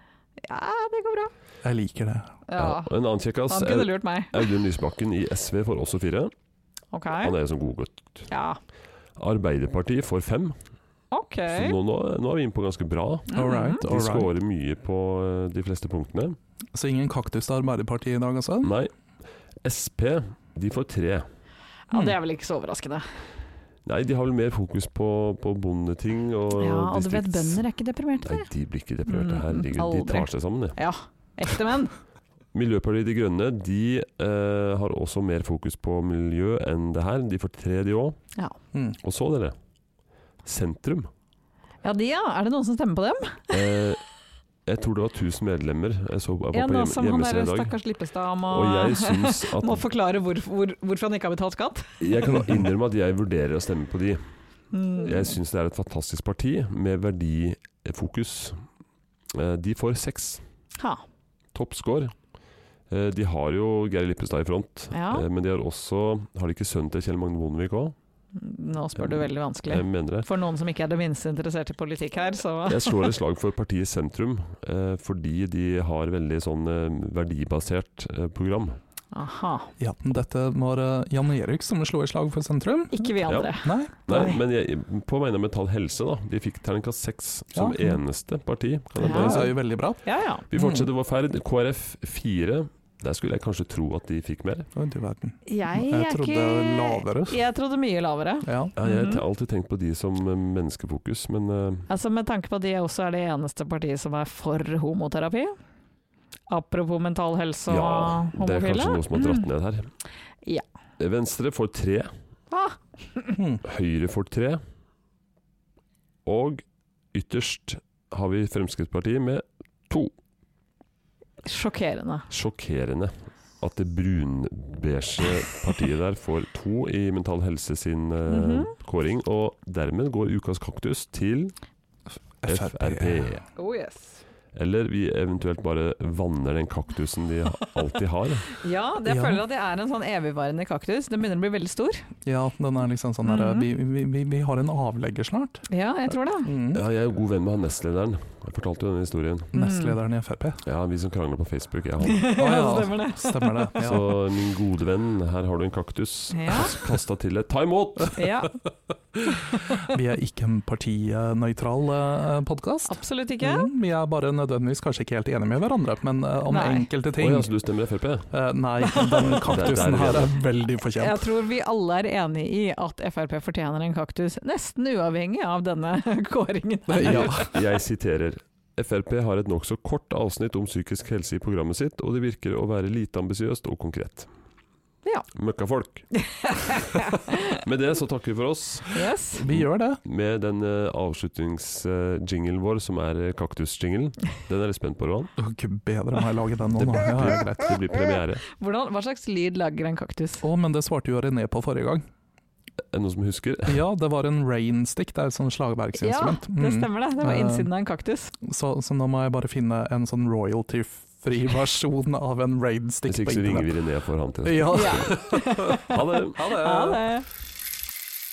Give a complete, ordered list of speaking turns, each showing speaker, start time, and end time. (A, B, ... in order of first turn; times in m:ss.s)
0:00.4-0:01.3 A
0:01.6-0:02.3 B
0:02.5-0:02.9 A
0:02.6-0:06.3 C
0:03.5-0:04.5 A
0:06.9-0:07.3 A
0:07.2-0:08.3 C
0:08.3-0:08.6 A
0:09.2-0:10.6 C
0:11.1-0:11.8 A
0:11.5-0:16.4 C
0:13.3-0:13.8 A
0:13.3-0:14.3 B
0:16.7-0:18.7 B
0:18.6-0:18.9 C
0:19.6-0:21.3 C
0:21.9-0:23.2 A
0:23.8-0:27.6 C
0:26.6-0:28.5 A
0:28.2-0:30.8 C
0:29.1-0:31.9 A
0:32.5-0:38.2 C
0:39.0-0:39.6 C
0:40.4-0:41.1 C
0:41.8-0:43.5 A
0:43.5-0:44.0 C
0:44.7-0:47.8 C
0:46.5-0:52.0 A
0:48.5-0:49.8 C
0:52.0-0:54.2 C
0:54.7-0:55.4 A
0:55.0-0:58.6 C
0:59.3-1:00.4 C
1:01.5-1:02.1 C
1:02.9-1:08.0 C
1:04.9-1:05.3 A
1:08.3-1:13.1 A
1:09.0-1:10.3 C
1:12.7-1:18.8 C
1:19.1-1:19.7 A
1:19.8-1:23.9 B
1:22.9-1:24.4 A
1:23.3-1:23.5 C
1:24.1-1:29.6 C
1:29.0-1:30.9 B
1:29.0-1:30.4 A
1:30.5-1:34.7 C
1:34.7-1:37.4 B
1:35.4-1:39.2 A
1:38.4-1:38.7 B
1:38.8-1:41.9 C
1:41.9-1:45.6 A
1:46.5-1:49.4 A
1:47.7-1:49.9 C
1:51.0-1:52.1 C
1:52.5-1:53.4 A
1:53.4-1:53.6 B
1:53.6-1:54.6 C
1:56.2-2:00.1 C
2:01.4-2:02.3 A
2:02.3-2:11.5 C
2:08.3-2:08.7 A
2:12.4-2:13.3 B
2:12.4-2:13.4 C
2:13.6-2:14.2 A
2:14.5-2:18.5 C
2:18.5-2:22.0 A
2:19.0-2:19.4 B
2:22.2-2:25.6 B
2:23.2-2:23.7 A
2:25.7-2:26.5 A
2:26.4-2:26.8 B
2:26.7-2:29.5 C
2:29.5-2:30.6 B
2:29.6-2:30.0 A
2:30.6-2:32.3 C
2:32.1-2:33.5 A
2:32.3-2:34.1 B
2:33.8-2:38.3 C
2:36.3-2:36.7 A
2:38.2-2:38.6 A
2:39.3-2:39.7 A
2:39.8-2:47.5 B
2:42.9-2:43.7 A
2:46.5-2:46.9 A
2:47.2-2:48.3 C
2:48.3-2:51.3 B
2:48.8-2:49.5 A
2:49.4-2:50.3 C
2:51.0-2:57.6 A
2:56.9-2:57.5 B
2:57.0-3:04.3 C
3:05.3-3:06.1 C
3:06.1-3:07.6 A
3:07.6-3:15.3 C
3:08.9-3:09.4 A
3:09.3-3:10.0 B
3:15.4-3:17.8 B
3:16.7-3:18.4 C
3:18.5-3:20.4 A
3:20.4-3:22.0 B
3:22.9-3:23.8 C
3:23.7-3:27.7 B
3:26.0-3:28.3 A
3:28.4-3:33.7 B
3:33.1-3:35.1 C
3:34.4-3:35.8 B
3:34.7-3:37.3 A
3:35.8-3:36.5 C
3:36.3-3:37.0 B